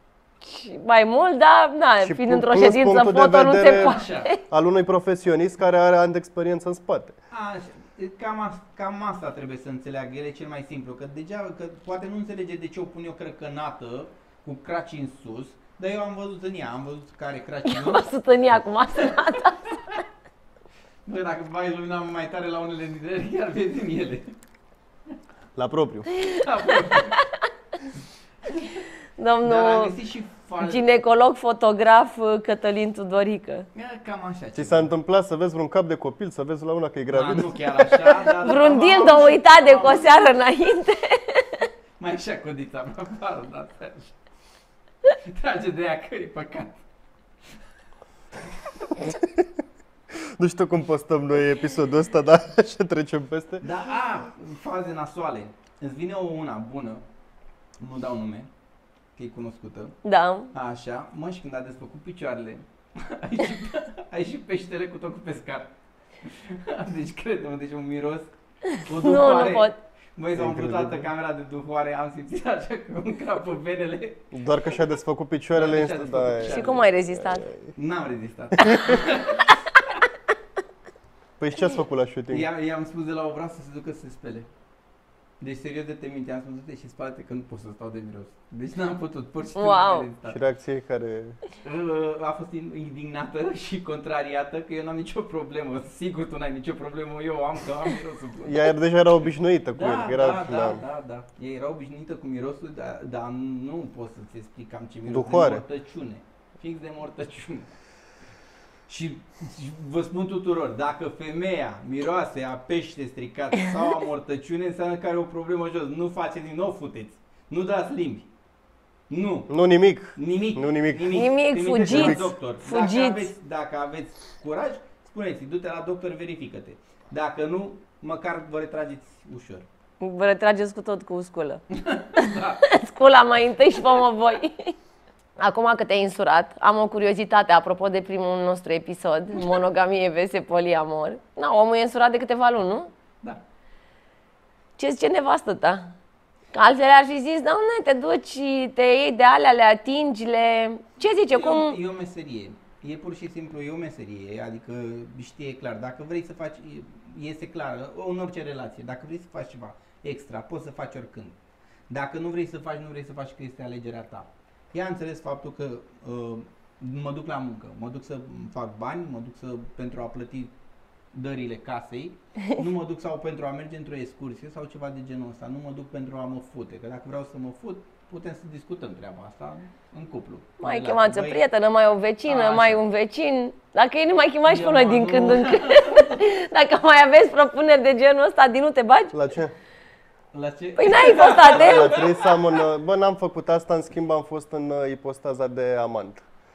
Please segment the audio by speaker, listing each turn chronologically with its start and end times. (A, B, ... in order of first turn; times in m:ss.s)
0:00.4-0:04.4 A
0:02.0-0:04.0 B
0:03.6-0:04.3 C
0:04.5-0:07.2 B
0:07.3-0:18.1 C
0:17.7-0:19.8 A
0:19.0-0:20.0 C
0:21.0-0:24.4 C
0:25.6-0:26.1 B
0:26.1-0:27.2 C
0:26.2-0:27.4 A
0:28.4-0:28.8 C
0:29.2-0:30.0 A
0:29.4-0:30.8 C
0:30.6-0:33.7 A
0:33.7-0:34.9 C
0:34.6-0:38.3 B
0:37.1-0:40.2 C
0:38.4-0:41.7 A
0:42.0-0:44.2 C
0:45.2-0:46.8 C
0:50.4-0:53.7 B
0:53.6-0:57.0 C
0:57.8-0:58.5 C
0:59.2-1:00.0 C
1:00.0-1:00.5 A
1:00.5-1:08.3 C
1:08.7-1:09.8 A
1:08.8-1:14.3 C
1:10.4-1:11.0 B
1:14.3-1:17.7 B
1:15.5-1:16.9 C
1:16.4-1:17.5 A
1:17.8-1:19.5 C
1:18.7-1:18.9 A
1:21.4-1:22.5 B
1:22.3-1:24.5 C
1:25.4-1:30.4 C
1:29.6-1:30.1 A
1:30.2-1:31.4 B
1:31.6-1:38.7 C
1:38.4-1:40.8 B
1:39.7-1:47.7 C
1:45.1-1:45.6 B
1:48.9-1:58.3 C
1:59.1-1:59.5 C
1:59.5-2:01.2 B
2:00.2-2:09.7 C
2:01.1-2:03.3 A
2:01.9-2:02.3 B
2:10.0-2:11.6 A
2:11.7-2:12.7 C
2:12.2-2:14.8 A
2:15.4-2:22.9 A
2:24.8-2:25.9 A
2:26.5-2:31.8 A
2:31.3-2:41.4 C
2:41.9-2:50.5 C
2:51.1-3:01.4 C
3:00.6-3:09.2 A
3:02.3-3:02.8 C
3:04.5-3:06.2 C
3:09.1-3:09.5 B
3:10.3-3:12.6 C
3:10.8-3:12.0 A
3:11.5-3:16.2 B